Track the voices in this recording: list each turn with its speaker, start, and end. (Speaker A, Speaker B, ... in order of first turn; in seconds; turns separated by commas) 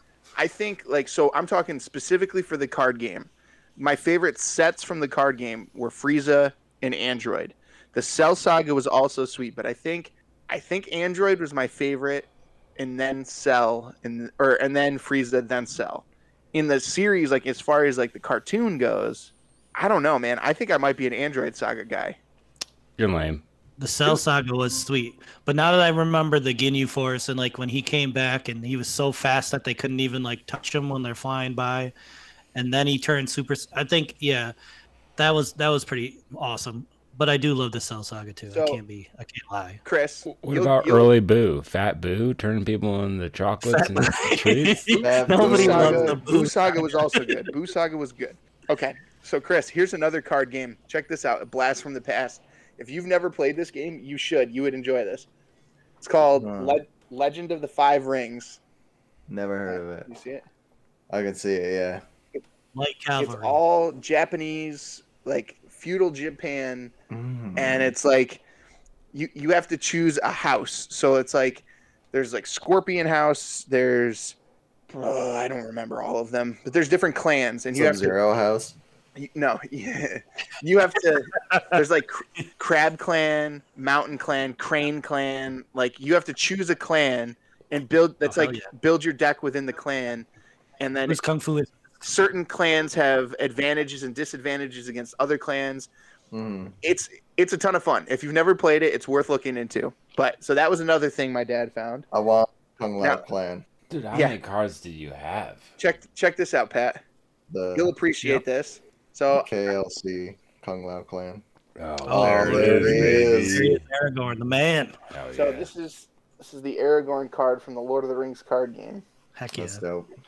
Speaker A: 0.4-22.2, Speaker B: 23.0-23.4, Speaker C: 23.8-31.9, Speaker C: 32.5-34.5, Speaker C: 35.2-39.8, Speaker A: 38.5-38.8, Speaker A: 39.9-41.1, Speaker B: 40.3-44.9, Speaker C: 43.6-47.4, Speaker D: 45.0-46.2, Speaker A: 45.3-55.3, Speaker A: 56.0-58.6, Speaker D: 56.4-56.8, Speaker D: 59.3-60.1, Speaker A: 59.7-60.4, Speaker D: 61.1-62.0, Speaker C: 62.7-63.6, Speaker A: 63.2-66.9, Speaker D: 67.1-67.9, Speaker A: 67.6-68.4, Speaker A: 69.1-74.4, Speaker A: 74.9-78.1, Speaker D: 77.7-78.8, Speaker A: 79.2-90.3, Speaker C: 88.2-88.7, Speaker A: 90.8-91.2, Speaker C: 91.1-91.8, Speaker A: 92.0-95.9, Speaker D: 96.3-96.8, Speaker A: 96.8-102.1, Speaker D: 102.1-103.6, Speaker B: 103.9-105.7, Speaker A: 105.8-107.0, Speaker D: 107.5-107.9, Speaker A: 107.8-109.5, Speaker D: 109.3-111.4, Speaker B: 111.8-113.8, Speaker C: 112.0-115.0, Speaker D: 112.1-113.7, Speaker B: 115.1-115.7, Speaker A: 115.3-119.0, Speaker C: 119.4-119.8, Speaker D: 119.5-120.1